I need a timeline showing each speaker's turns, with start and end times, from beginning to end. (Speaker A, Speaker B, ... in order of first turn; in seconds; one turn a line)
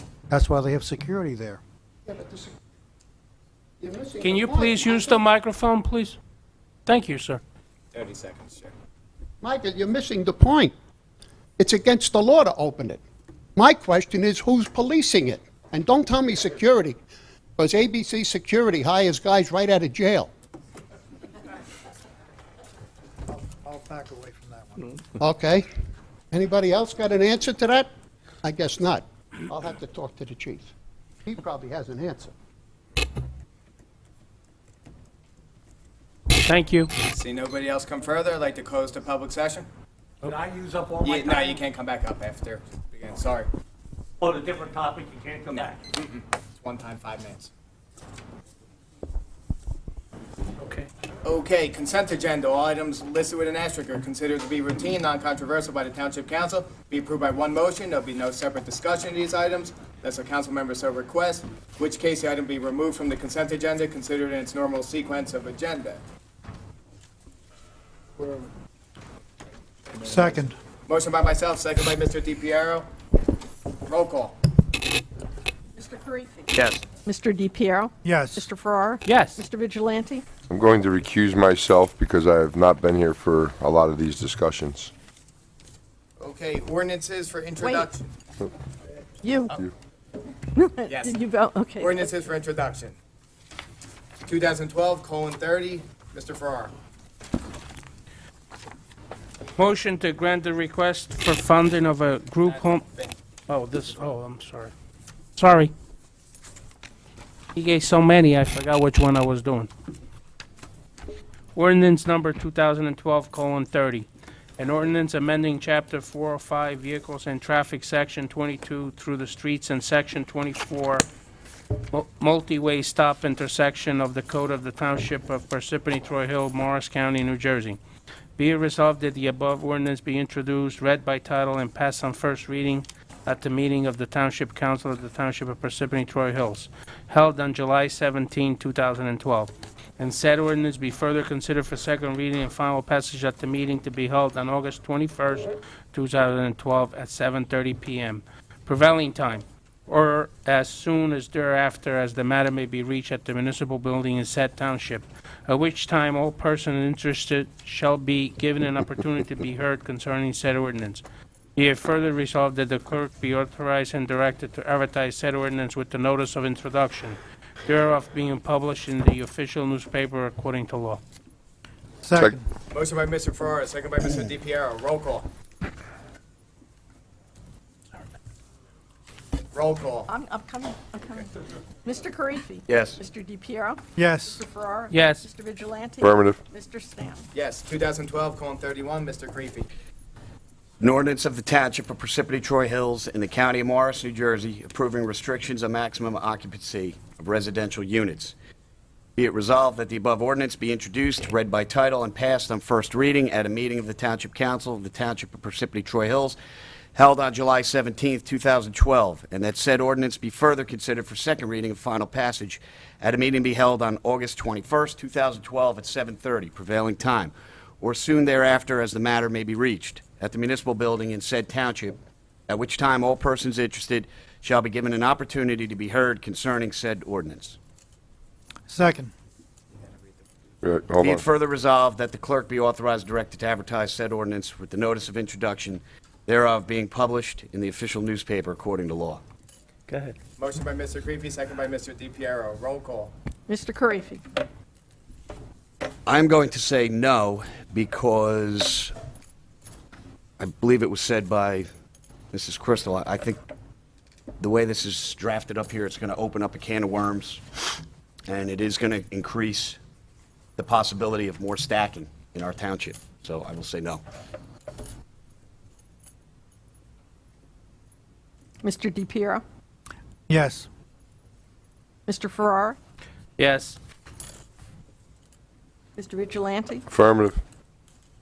Speaker A: 0.3-1.6
Speaker B: 2.1-2.5
Speaker B: 3.8-5.2
Speaker C: 4.2-6.2
Speaker C: 6.9-7.4
Speaker D: 7.9-8.7
Speaker B: 9.4-10.7
Speaker B: 11.6-13.0
Speaker B: 13.6-17.0
Speaker B: 17.6-20.3
Speaker A: 23.3-24.9
Speaker B: 25.2-25.6
Speaker B: 26.3-27.9
Speaker B: 28.4-30.7
Speaker B: 31.3-32.3
Speaker C: 36.4-37.0
Speaker D: 37.0-39.7
Speaker E: 40.2-41.4
Speaker D: 41.0-43.5
Speaker E: 44.2-45.6
Speaker D: 45.5-47.5
Speaker D: 51.2-66.0
Speaker A: 70.0-70.5
Speaker D: 70.9-72.9
Speaker D: 73.9-74.4
Speaker F: 75.8-80.2
Speaker G: 76.5-76.9
Speaker A: 78.0-78.5
Speaker C: 79.1-79.4
Speaker H: 80.5-84.9
Speaker D: 86.2-88.1
Speaker F: 87.6-87.9
Speaker F: 89.2-89.6
Speaker F: 90.5-92.1
Speaker D: 90.9-91.2
Speaker D: 91.8-93.0
Speaker D: 94.3-96.7
Speaker C: 99.6-102.9
Speaker D: 102.5-103.1
Speaker C: 103.5-104.7
Speaker C: 105.4-105.7
Speaker C: 107.5-109.7
Speaker C: 111.5-114.1
Speaker C: 114.6-121.0
Speaker C: 121.9-127.8
Speaker C: 128.4-161.0
Speaker C: 161.6-171.0
Speaker A: 172.0-172.4
Speaker D: 172.7-175.3
Speaker D: 179.5-180.1
Speaker F: 180.1-181.3
Speaker F: 181.8-187.3
Speaker G: 182.7-183.0
Speaker A: 184.0-184.4
Speaker C: 184.9-185.2
Speaker H: 186.0-186.4
Speaker D: 187.3-189.7
Speaker G: 190.8-198.3
Speaker G: 199.2-206.4
Speaker G: 206.9-227.6
Speaker A: 228.7-229.1
Speaker H: 230.6-231.2
Speaker G: 231.0-239.2
Speaker E: 239.9-240.2
Speaker D: 240.4-243.1
Speaker F: 243.5-244.2
Speaker G: 246.1-248.9
Speaker G: 250.4-251.7
Speaker G: 252.3-253.4
Speaker G: 254.4-257.4
Speaker G: 258.3-259.8
Speaker G: 260.6-264.0
Speaker F: 268.6-269.4
Speaker A: 270.3-270.7
Speaker F: 272.1-272.8
Speaker C: 273.4-273.8
Speaker F: 276.0-276.9
Speaker H: 276.9-277.4